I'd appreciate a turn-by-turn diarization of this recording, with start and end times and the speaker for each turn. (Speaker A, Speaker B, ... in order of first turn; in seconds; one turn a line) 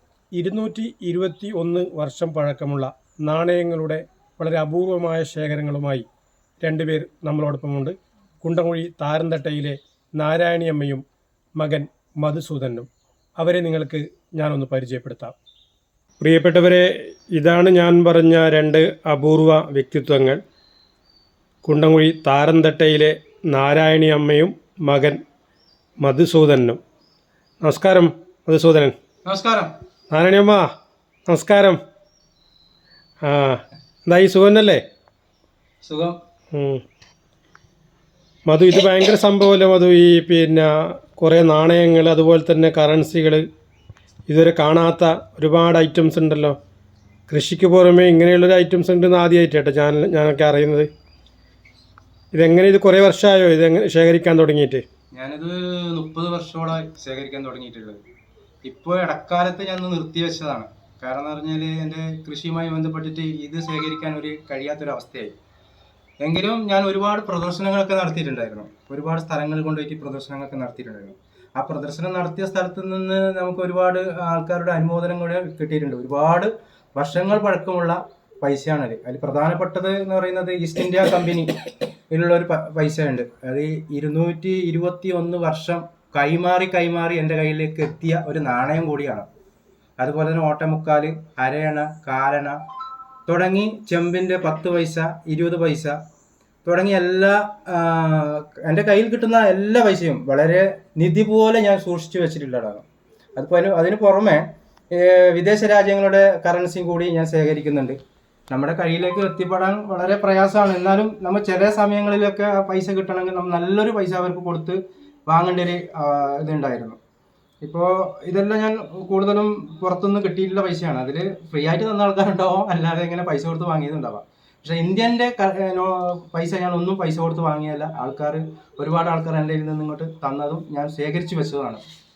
Speaker A: 0.3-6.0
Speaker A: 6.6-11.0
Speaker A: 11.6-12.9
Speaker A: 13.4-15.3
Speaker A: 16.2-20.4
Speaker A: 21.6-25.2
Speaker A: 26.0-26.8
Speaker A: 27.6-28.9
Speaker B: 29.2-29.7
Speaker A: 30.1-30.7
Speaker A: 31.3-31.8
Speaker A: 33.2-34.8
Speaker B: 35.8-36.2
Speaker A: 36.5-36.8
Speaker A: 38.5-43.4
Speaker A: 44.3-46.6
Speaker A: 47.3-50.9
Speaker A: 52.3-54.8
Speaker B: 55.1-58.0
Speaker B: 58.6-65.3
Speaker B: 66.2-81.5
Speaker B: 82.1-89.3
Speaker B: 90.0-92.6
Speaker B: 93.3-96.0
Speaker B: 96.7-102.8
Speaker B: 103.4-108.0
Speaker B: 108.5-117.0
Speaker B: 117.6-131.8